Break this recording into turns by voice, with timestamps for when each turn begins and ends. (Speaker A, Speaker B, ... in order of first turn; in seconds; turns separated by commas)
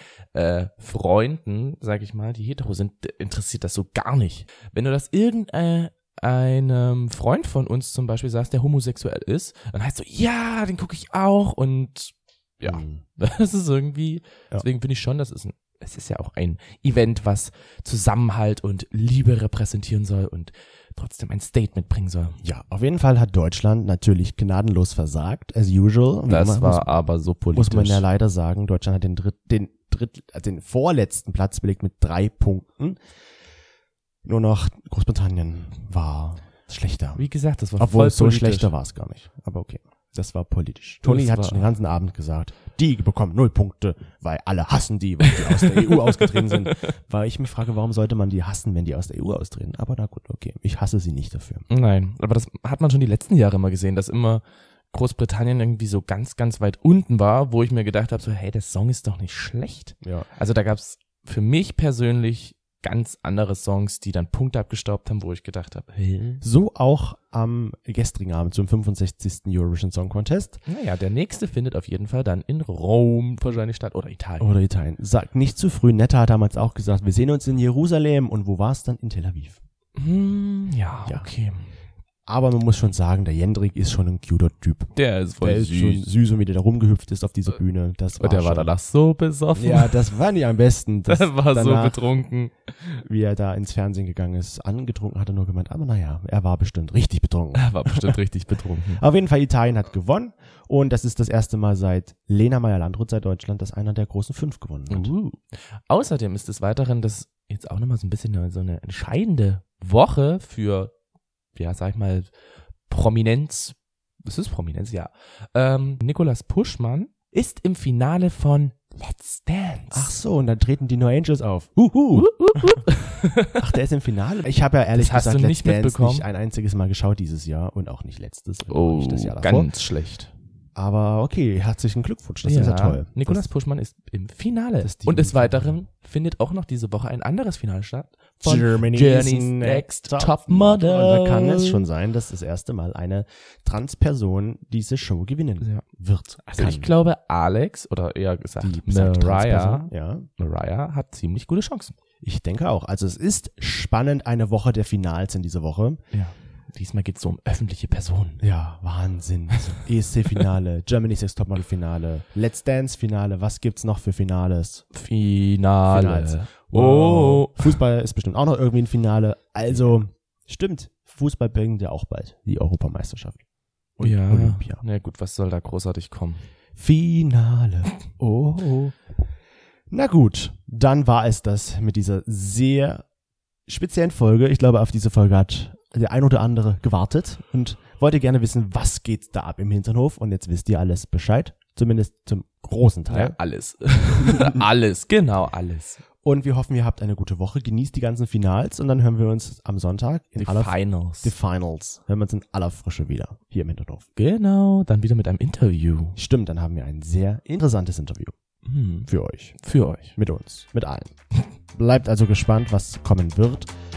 Speaker A: 0.3-22.4, Speaker B: 12.7-13.0, Speaker B: 22.4-26.9, Speaker A: 26.3-28.0, Speaker B: 27.5-33.0, Speaker B: 34.2-37.2, Speaker A: 37.2-38.7, Speaker B: 37.8-51.7, Speaker A: 41.0-41.7, Speaker A: 45.5-46.7, Speaker A: 51.7-66.4, Speaker B: 66.4-70.6, Speaker A: 70.7-74.5, Speaker B: 74.4-79.6, Speaker A: 80.0-81.7, Speaker B: 82.3-88.7, Speaker A: 85.0-86.1, Speaker A: 88.2-90.1, Speaker B: 89.6-92.0, Speaker A: 91.1-93.0, Speaker B: 93.0-98.2, Speaker A: 97.5-99.0, Speaker B: 99.0-105.1, Speaker A: 104.9-110.9, Speaker A: 111.5-112.3, Speaker A: 112.9-120.1, Speaker B: 119.9-122.3, Speaker A: 122.1-123.8, Speaker B: 123.5-129.7, Speaker A: 124.9-126.3, Speaker A: 128.7-130.3, Speaker B: 130.8-133.5, Speaker A: 132.4-141.9, Speaker B: 134.8-135.8, Speaker B: 138.4-146.9, Speaker A: 146.4-151.9, Speaker B: 148.6-150.3, Speaker B: 152.2-156.0, Speaker A: 156.1-158.4, Speaker B: 158.4-164.8, Speaker A: 159.5-159.8, Speaker A: 164.9-167.8, Speaker B: 165.8-173.4, Speaker B: 174.0-174.8, Speaker A: 174.0-176.4, Speaker B: 176.8-179.0, Speaker B: 179.9-183.0, Speaker B: 183.7-193.4, Speaker A: 193.1-196.0, Speaker B: 194.2-194.7, Speaker B: 196.2-204.1, Speaker A: 200.4-201.3, Speaker A: 204.2-206.2, Speaker B: 206.2-208.3, Speaker A: 208.7-209.1, Speaker B: 209.1-209.6, Speaker A: 209.6-210.2, Speaker B: 210.2-211.1, Speaker B: 211.7-213.7